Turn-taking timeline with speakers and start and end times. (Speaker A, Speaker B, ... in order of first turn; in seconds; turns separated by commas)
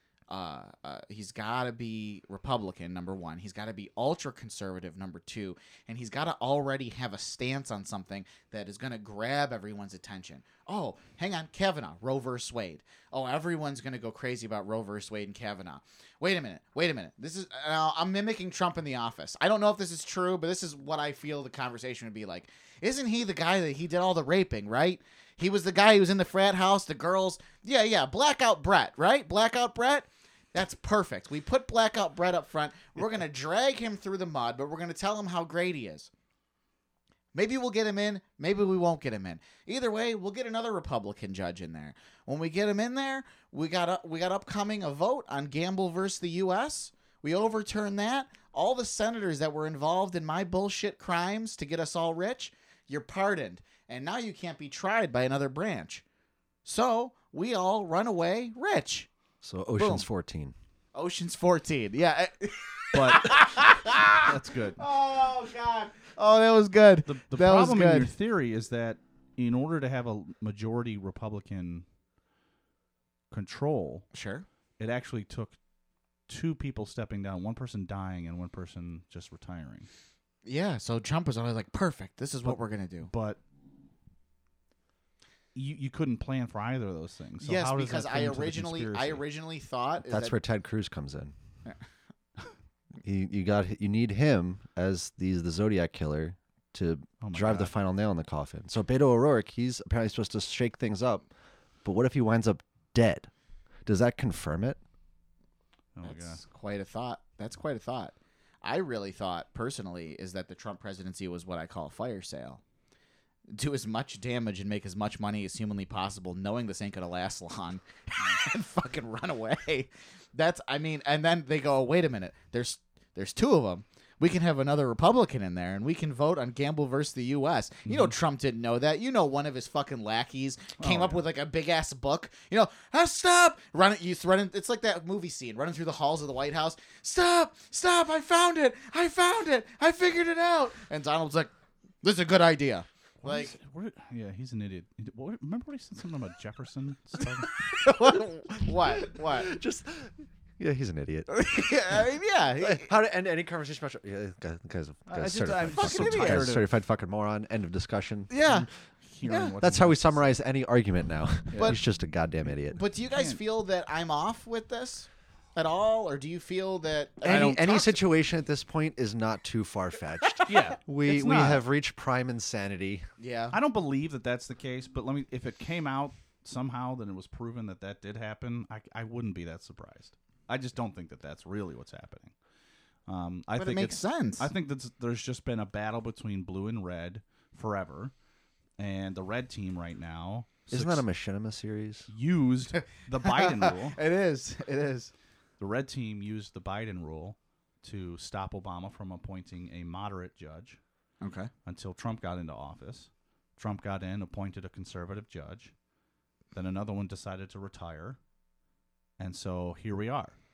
Speaker A: 0.3-36.1, Speaker A: 37.3-56.0, Speaker A: 56.6-59.1, Speaker B: 59.4-60.5, Speaker A: 59.8-60.0, Speaker A: 60.9-68.1, Speaker C: 62.9-64.8, Speaker C: 67.0-71.8, Speaker C: 73.3-74.1, Speaker A: 74.1-74.5, Speaker C: 74.8-75.6, Speaker C: 76.3-79.9, Speaker A: 80.4-83.1, Speaker C: 82.5-83.4, Speaker C: 85.5-89.2, Speaker A: 87.4-90.3, Speaker B: 90.1-91.3, Speaker B: 93.0-101.2, Speaker C: 97.2-97.7, Speaker B: 101.8-103.3, Speaker B: 103.8-104.8, Speaker C: 106.0-106.4, Speaker A: 106.0-112.6, Speaker A: 113.5-141.5, Speaker C: 127.9-128.1, Speaker C: 130.8-131.2, Speaker A: 142.0-143.5, Speaker C: 143.2-147.5, Speaker A: 147.7-149.5, Speaker B: 149.0-151.3, Speaker A: 151.3-152.9, Speaker B: 152.6-158.6, Speaker C: 155.1-156.7, Speaker A: 155.7-156.5, Speaker A: 158.3-158.7, Speaker C: 159.1-160.3, Speaker A: 159.2-159.5, Speaker B: 159.6-162.8, Speaker C: 161.5-161.8, Speaker A: 162.7-168.0, Speaker C: 163.1-163.4, Speaker B: 167.2-173.1, Speaker C: 170.5-171.6, Speaker A: 173.2-173.6, Speaker C: 173.5-182.3, Speaker C: 183.1-188.1, Speaker A: 183.6-184.5, Speaker C: 188.8-191.0, Speaker B: 190.7-192.1, Speaker C: 192.1-194.0, Speaker A: 193.2-195.1, Speaker C: 195.6-200.8, Speaker A: 201.2-201.5, Speaker C: 201.6-205.7, Speaker C: 206.5-208.2, Speaker C: 209.2-210.4